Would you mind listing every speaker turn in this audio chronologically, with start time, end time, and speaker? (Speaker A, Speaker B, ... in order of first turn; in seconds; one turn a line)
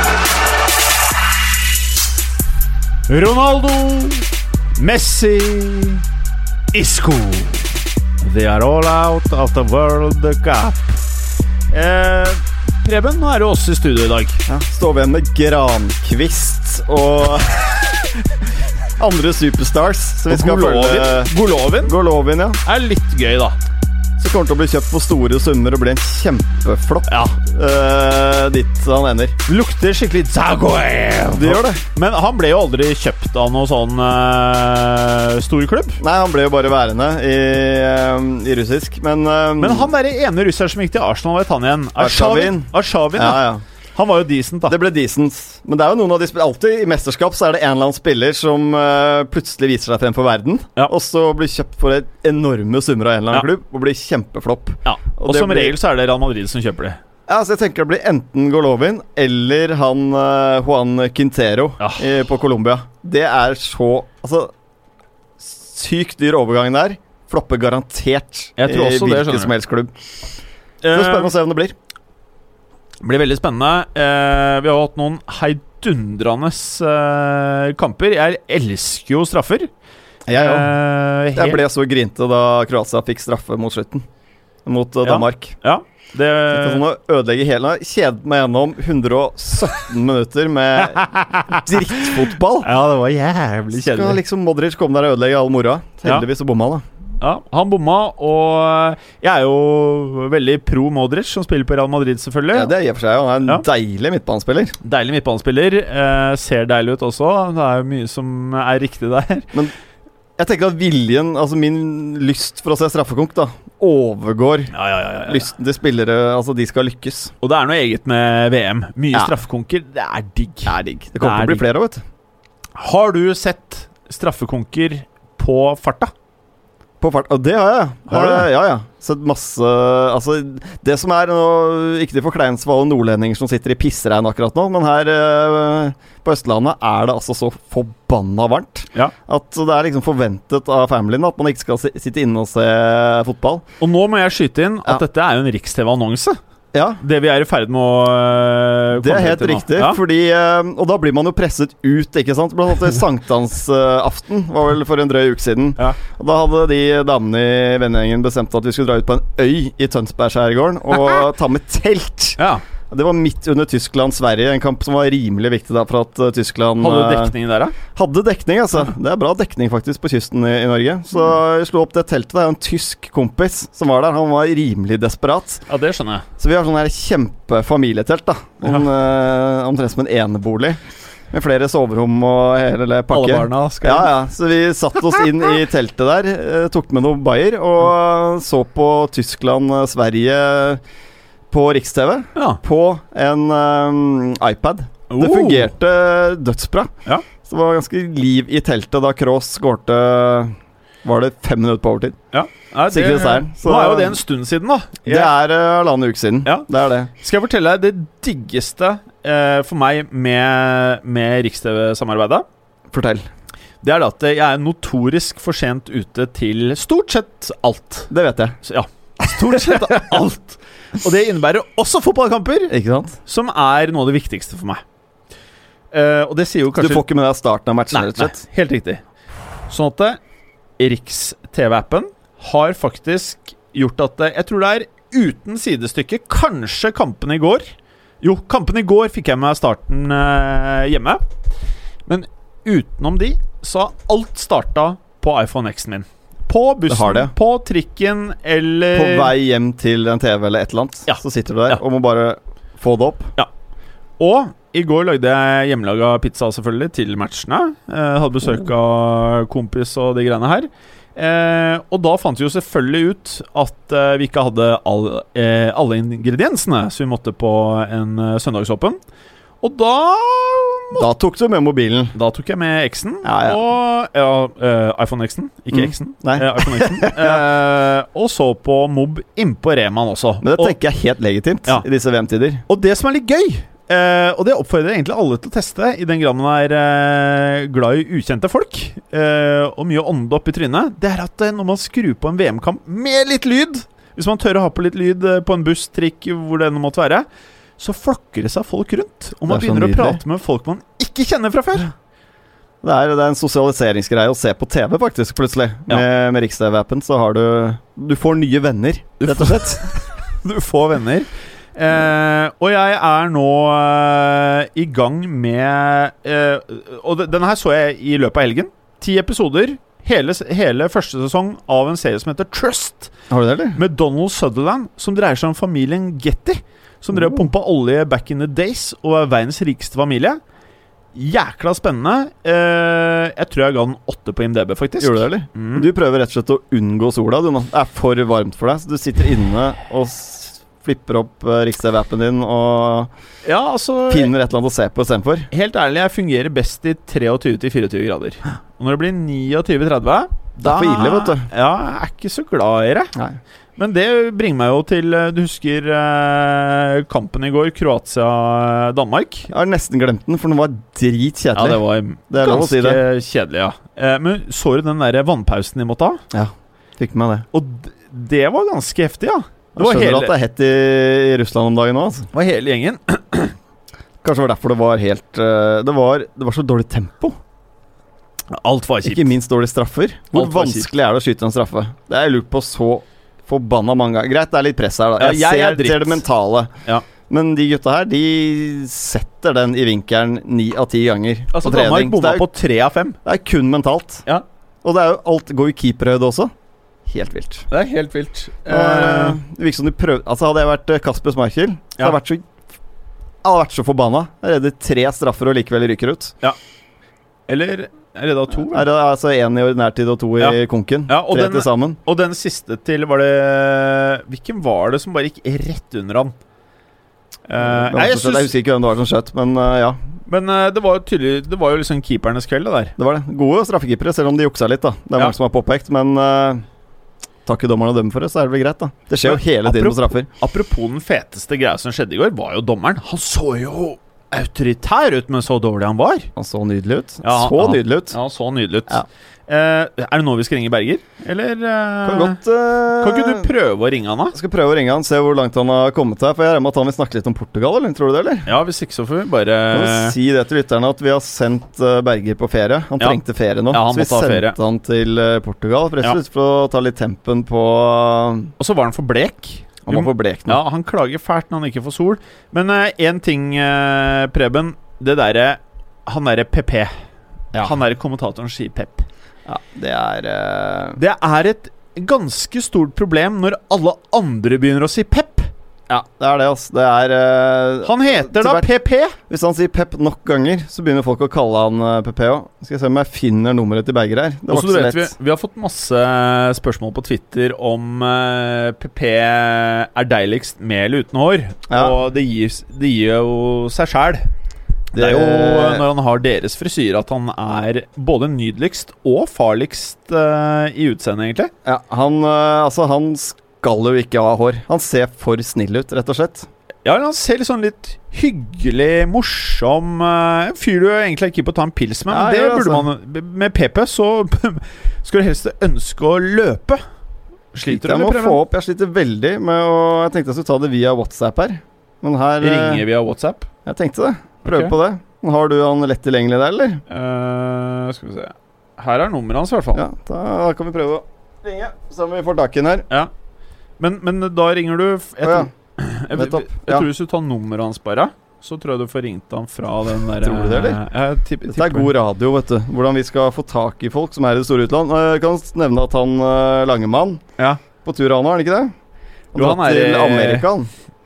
Speaker A: 3.1-4.3
Speaker A: 4.8-6.0
Speaker A: 6.7-11.0
Speaker A: 11.7-14.4
Speaker B: 14.5-18.0
Speaker B: 19.0-21.3
Speaker A: 20.3-22.0
Speaker B: 21.8-22.6
Speaker A: 22.6-23.6
Speaker B: 24.2-29.4
Speaker A: 27.1-27.4
Speaker A: 29.5-36.0
Speaker B: 31.3-31.8
Speaker B: 36.0-39.9
Speaker A: 39.6-43.4
Speaker B: 42.0-43.6
Speaker A: 44.0-44.8
Speaker B: 44.7-55.8
Speaker A: 54.9-57.0
Speaker B: 57.3-64.5
Speaker A: 61.8-62.1
Speaker B: 65.4-69.9
Speaker A: 68.6-69.5
Speaker A: 70.8-71.3
Speaker B: 70.9-71.8
Speaker A: 73.0-79.7
Speaker B: 80.3-80.7
Speaker A: 80.3-81.6
Speaker B: 81.4-84.1
Speaker B: 84.7-85.6
Speaker A: 85.0-86.8
Speaker B: 86.5-92.7
Speaker A: 90.8-94.2
Speaker B: 93.7-96.8
Speaker A: 97.2-102.7
Speaker B: 102.5-104.8
Speaker A: 104.8-109.5
Speaker B: 110.4-114.7
Speaker A: 114.7-115.5
Speaker B: 115.3-117.3
Speaker A: 117.4-121.6
Speaker B: 120.7-122.0
Speaker A: 122.8-126.1
Speaker B: 127.0-143.7
Speaker A: 128.1-128.5
Speaker A: 143.8-146.4
Speaker B: 146.7-147.0
Speaker A: 147.0-150.0
Speaker B: 148.9-167.3
Speaker A: 162.4-162.7
Speaker A: 166.8-167.8
Speaker B: 167.9-175.7
Speaker A: 175.7-176.3
Speaker B: 176.4-190.8
Speaker A: 183.1-184.1
Speaker B: 191.5-202.2
Speaker A: 192.4-192.6
Speaker A: 195.1-195.7
Speaker A: 202.3-205.3
Speaker B: 202.9-204.2
Speaker B: 205.1-207.1
Speaker A: 207.2-212.4
Speaker B: 212.9-213.3
Speaker A: 213.8-218.1
Speaker B: 218.1-218.6
Speaker A: 218.6-222.7
Speaker B: 222.7-223.2
Speaker A: 223.2-224.8
Speaker A: 225.9-227.0
Speaker B: 226.8-228.4
Speaker A: 227.9-229.0
Speaker A: 229.7-230.2
Speaker A: 230.8-237.7
Speaker A: 238.2-241.2
Speaker A: 242.1-249.3
Speaker B: 246.9-247.3
Speaker B: 248.9-253.3
Speaker A: 251.1-251.8
Speaker A: 254.2-269.0
Speaker A: 269.6-271.1
Speaker B: 270.9-272.2
Speaker A: 272.1-280.7
Speaker B: 273.2-273.6
Speaker B: 275.7-277.4
Speaker B: 280.4-282.6
Speaker A: 282.7-297.3
Speaker A: 297.8-301.9
Speaker B: 299.5-300.2
Speaker B: 302.8-309.9
Speaker A: 309.2-323.1
Speaker B: 323.3-323.8
Speaker A: 323.8-330.4
Speaker B: 327.1-327.4
Speaker A: 331.1-335.9
Speaker B: 335.0-343.1
Speaker A: 343.4-344.3
Speaker B: 344.1-345.5
Speaker A: 345.5-353.1
Speaker B: 350.6-351.5
Speaker B: 353.1-353.4
Speaker A: 353.8-359.5
Speaker B: 359.5-363.0
Speaker A: 361.6-366.2
Speaker B: 366.3-367.5
Speaker A: 367.5-370.3
Speaker B: 369.8-372.3
Speaker A: 372.3-373.6
Speaker B: 374.2-377.4
Speaker A: 378.5-379.3
Speaker B: 379.0-386.7
Speaker A: 380.3-380.9
Speaker A: 385.2-386.2
Speaker B: 387.3-392.5
Speaker A: 391.5-393.2
Speaker B: 393.2-394.2
Speaker B: 394.8-396.5
Speaker B: 397.1-397.7
Speaker A: 397.7-399.4
Speaker B: 398.7-402.5
Speaker B: 403.4-406.3
Speaker A: 407.5-408.9
Speaker B: 408.6-412.0
Speaker A: 410.4-416.4
Speaker A: 417.5-418.5
Speaker B: 417.6-420.0
Speaker A: 420.3-422.9
Speaker B: 423.0-426.6
Speaker B: 427.5-430.3
Speaker A: 429.2-436.3
Speaker B: 436.4-438.2
Speaker A: 437.2-442.4
Speaker B: 442.1-443.5
Speaker A: 443.0-444.4
Speaker B: 444.3-448.5
Speaker A: 448.5-450.2
Speaker B: 449.7-458.5
Speaker A: 453.7-454.6
Speaker A: 458.6-466.9
Speaker B: 459.9-460.6
Speaker A: 467.6-469.1
Speaker B: 469.5-471.0
Speaker A: 471.0-475.5
Speaker B: 475.9-478.7
Speaker A: 477.9-479.2
Speaker B: 479.2-485.1
Speaker A: 484.5-494.3
Speaker B: 491.7-491.9
Speaker B: 494.9-495.8
Speaker A: 494.9-501.5
Speaker B: 501.6-506.5
Speaker A: 506.9-516.8
Speaker B: 512.1-512.9
Speaker A: 517.5-518.4
Speaker B: 517.7-522.8
Speaker A: 522.4-523.5
Speaker B: 523.7-526.8
Speaker A: 524.5-524.7
Speaker A: 526.9-529.8
Speaker B: 529.8-532.9
Speaker A: 533.8-541.9
Speaker B: 535.2-535.5
Speaker B: 536.1-536.9
Speaker B: 540.2-540.8
Speaker B: 541.5-547.2
Speaker B: 547.9-548.7
Speaker B: 549.3-550.7
Speaker A: 549.4-550.5